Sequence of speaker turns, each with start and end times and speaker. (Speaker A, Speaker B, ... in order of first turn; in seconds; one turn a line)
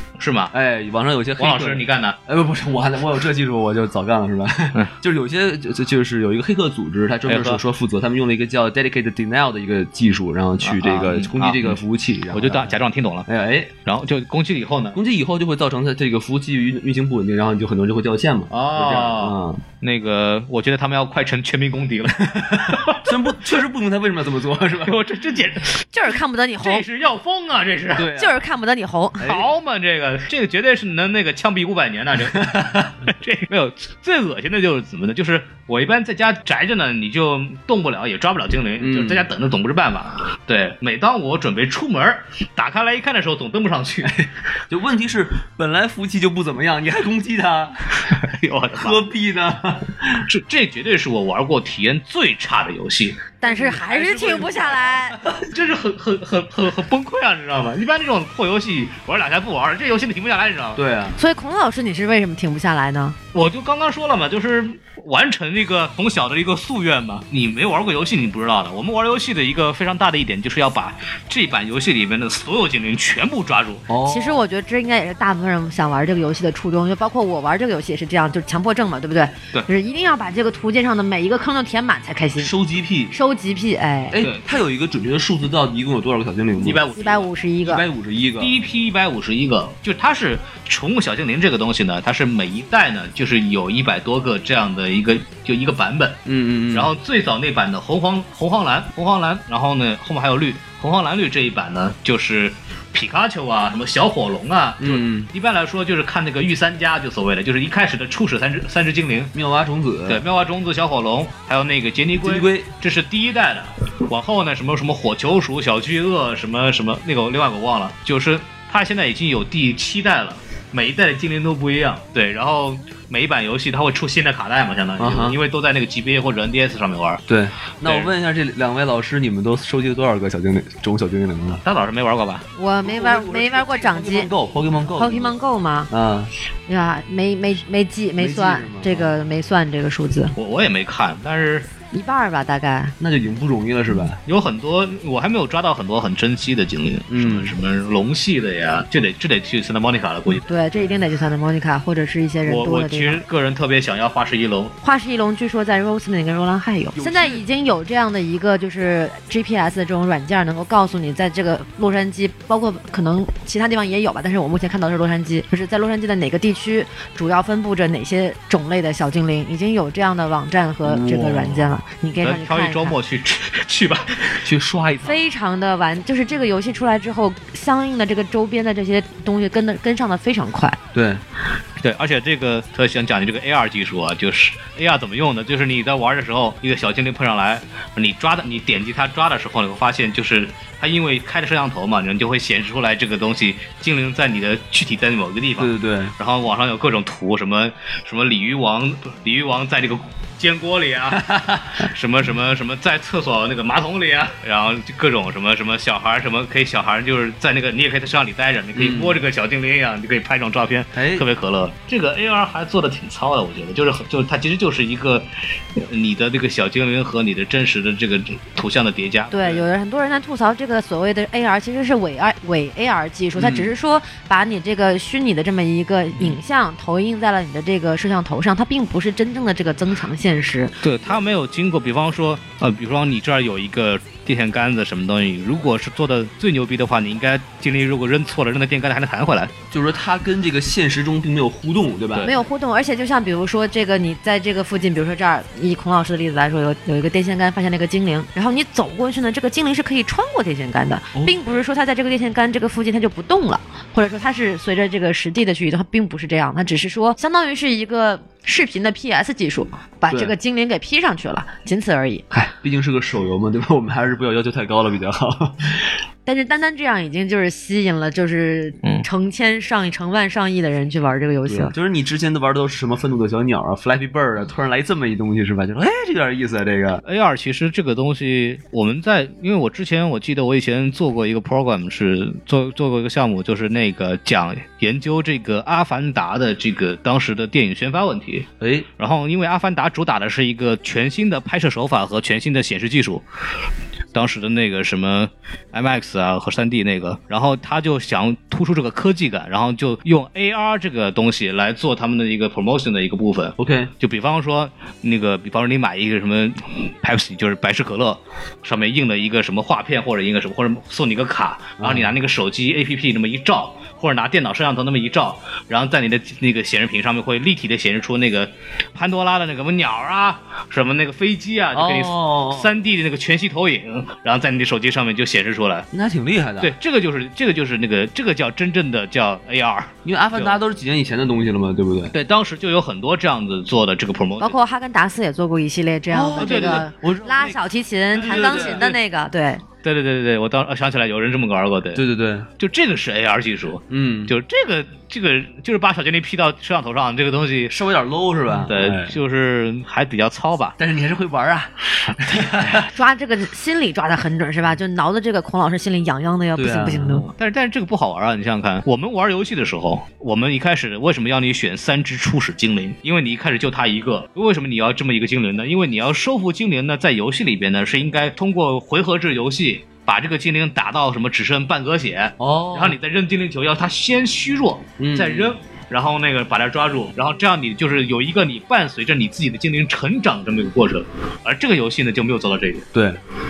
Speaker A: 0.2-0.5
Speaker B: 0.5-13.7
Speaker A: 1.4-2.2
Speaker A: 7.3-7.6
Speaker A: 10.6-11.8
Speaker A: 12.3-13.3
Speaker A: 13.8-15.0
Speaker B: 14.9-19.6
Speaker A: 18.5-23.1
Speaker B: 22.9-24.9
Speaker A: 24.8-25.8
Speaker C: 25.9-26.8
Speaker A: 26.6-28.1
Speaker B: 27.9-28.4
Speaker C: 28.1-29.3
Speaker B: 29.2-29.5
Speaker A: 29.2-32.5
Speaker B: 32.3-33.0
Speaker A: 33.0-44.1
Speaker B: 38.8-39.3
Speaker B: 44.0-48.1
Speaker A: 48.1-49.0
Speaker B: 48.8-50.2
Speaker A: 50.2-54.8
Speaker C: 53.4-55.2
Speaker B: 53.5-55.5
Speaker A: 55.5-60.8
Speaker B: 60.8-61.2
Speaker C: 61.2-63.1
Speaker A: 63.3-73.9
Speaker B: 73.9-74.4
Speaker C: 74.1-82.5
Speaker B: 82.4-83.1
Speaker C: 83.1-84.2
Speaker B: 84.1-86.8
Speaker A: 84.2-84.5
Speaker A: 86.6-87.3
Speaker C: 87.0-87.8
Speaker B: 87.6-88.5
Speaker A: 88.4-96.2
Speaker B: 96.2-96.9
Speaker A: 96.7-109.3
Speaker B: 104.8-105.3
Speaker B: 109.3-110.2
Speaker A: 110.1-127.2
Speaker B: 112.2-112.7
Speaker B: 125.0-125.4
Speaker B: 127.3-131.6
Speaker A: 127.8-128.1
Speaker A: 131.6-132.5
Speaker C: 132.5-134.3
Speaker B: 132.8-135.3
Speaker C: 134.9-135.9
Speaker B: 135.9-136.3
Speaker C: 136.7-140.3
Speaker B: 138.2-139.2
Speaker A: 140.3-141.7
Speaker C: 141.9-142.9
Speaker B: 143.0-144.2
Speaker A: 144.2-150.5
Speaker B: 147.1-147.5
Speaker C: 150.3-153.2
Speaker A: 152.4-154.8
Speaker C: 154.8-173.0
Speaker B: 156.9-157.4
Speaker B: 170.8-171.7
Speaker A: 172.2-174.5
Speaker B: 174.4-175.2
Speaker C: 175.0-180.8
Speaker B: 180.9-181.2
Speaker A: 181.8-219.6
Speaker B: 195.6-196.1
Speaker B: 201.1-201.8
Speaker B: 208.7-209.2
Speaker B: 210.9-211.2
Speaker C: 219.3-230.7
Speaker A: 230.8-239.5
Speaker B: 239.7-242.3
Speaker C: 242.2-262.2
Speaker B: 251.1-251.4
Speaker B: 262.3-266.0
Speaker C: 266.2-271.7
Speaker B: 271.5-277.0
Speaker A: 277.0-293.2
Speaker B: 288.6-288.9
Speaker A: 294.1-325.9
Speaker B: 303.6-303.9
Speaker B: 311.8-312.1
Speaker B: 321.7-322.7
Speaker B: 325.9-326.7
Speaker A: 326.6-330.6
Speaker B: 330.0-332.1
Speaker A: 332.1-334.6
Speaker C: 334.4-339.6
Speaker B: 336.1-337.6
Speaker A: 336.4-336.9
Speaker B: 338.1-338.9
Speaker A: 338.1-339.0
Speaker A: 339.8-342.0
Speaker B: 341.9-342.5
Speaker A: 342.6-347.7
Speaker B: 343.9-344.3
Speaker B: 347.7-349.2
Speaker A: 348.6-350.8
Speaker B: 350.8-352.9
Speaker C: 352.9-357.3
Speaker B: 356.6-357.2
Speaker A: 357.3-382.9
Speaker B: 372.4-373.0
Speaker B: 375.0-375.6
Speaker B: 382.9-383.2